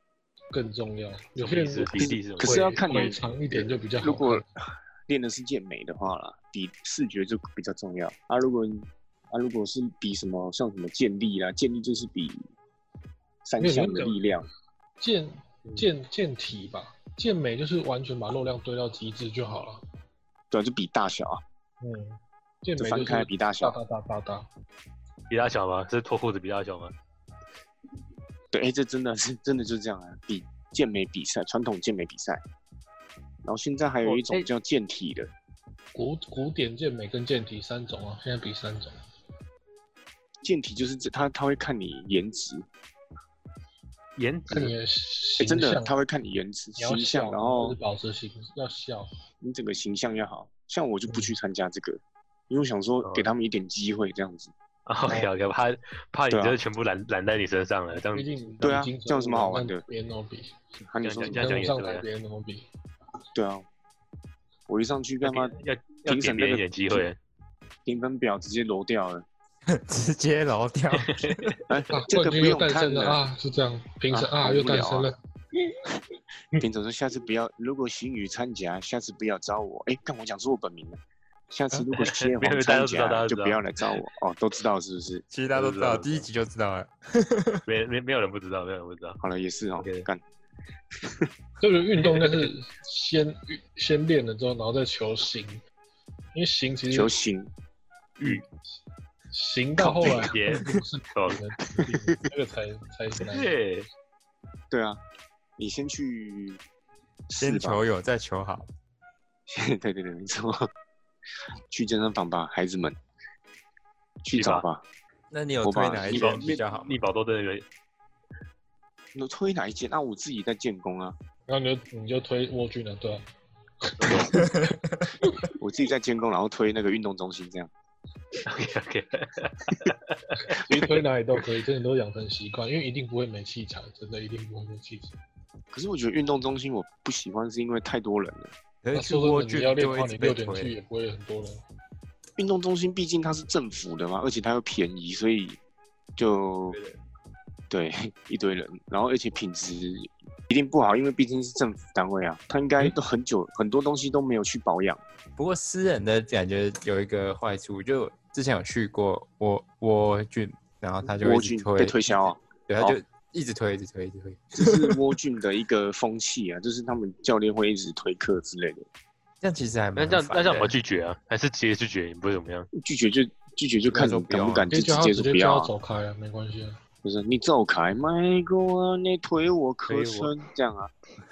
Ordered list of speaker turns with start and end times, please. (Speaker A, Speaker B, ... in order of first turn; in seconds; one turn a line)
Speaker A: 0.5-4.5
Speaker B: 1.4-2.7
Speaker C: 2.0-12.5
Speaker C: 13.4-14.5
Speaker A: 13.6-14.3
Speaker A: 15.0-19.8
Speaker C: 20.5-21.4
Speaker A: 21.8-24.5
Speaker C: 22.8-23.8
Speaker B: 25.3-26.9
Speaker C: 28.5-32.4
Speaker C: 33.4-35.3
Speaker B: 34.0-34.5
Speaker A: 35.9-39.0
Speaker C: 40.4-42.7
Speaker B: 44.2-44.7
Speaker A: 44.5-46.0
Speaker C: 45.4-47.8
Speaker A: 46.8-49.1
Speaker C: 49.4-54.5
Speaker B: 53.0-53.3
Speaker B: 54.9-58.3
Speaker C: 56.3-56.6
Speaker A: 58.0-60.5
Speaker C: 58.6-59.8
Speaker C: 60.9-61.6
Speaker B: 61.0-62.0
Speaker A: 61.3-62.6
Speaker C: 63.3-63.6
Speaker C: 64.7-65.5
Speaker B: 65.2-67.2
Speaker C: 66.1-67.1
Speaker C: 67.9-69.2
Speaker D: 69.7-71.5
Speaker B: 71.0-71.6
Speaker C: 71.7-73.2
Speaker A: 71.9-75.2
Speaker C: 74.1-75.1
Speaker C: 76.5-85.2
Speaker B: 81.9-83.6
Speaker D: 85.3-87.6
Speaker B: 85.5-86.2
Speaker B: 87.7-89.2
Speaker C: 89.2-90.2
Speaker B: 89.8-90.1
Speaker C: 91.0-91.3
Speaker A: 91.6-95.6
Speaker A: 96.3-97.1
Speaker C: 96.9-97.5
Speaker C: 98.2-98.4
Speaker A: 99.3-103.6
Speaker C: 99.8-100.4
Speaker B: 100.0-101.4
Speaker B: 103.3-103.9
Speaker C: 104.7-105.0
Speaker C: 105.6-106.6
Speaker C: 107.3-107.8
Speaker D: 107.4-108.7
Speaker C: 109.5-110.7
Speaker C: 111.7-113.0
Speaker C: 114.2-114.8
Speaker B: 114.3-114.7
Speaker D: 115.3-117.0
Speaker C: 115.6-116.6
Speaker B: 116.1-117.7
Speaker C: 119.2-121.2
Speaker A: 121.5-123.2
Speaker A: 123.8-124.4
Speaker B: 124.0-124.3
Speaker D: 124.3-125.1
Speaker C: 125.6-127.7
Speaker B: 128.5-130.2
Speaker A: 130.5-135.2
Speaker C: 135.7-138.5
Speaker D: 138.8-140.7
Speaker A: 138.9-141.6
Speaker C: 142.4-145.6
Speaker C: 146.2-146.8
Speaker D: 146.7-147.0
Speaker C: 147.7-155.0
Speaker D: 155.4-162.0
Speaker C: 161.2-163.0
Speaker D: 162.7-164.9
Speaker C: 164.6-168.9
Speaker D: 169.4-170.8
Speaker B: 170.0-172.7
Speaker C: 172.8-175.7
Speaker D: 173.9-174.7
Speaker A: 174.7-176.8
Speaker C: 177.0-180.9
Speaker B: 179.9-180.3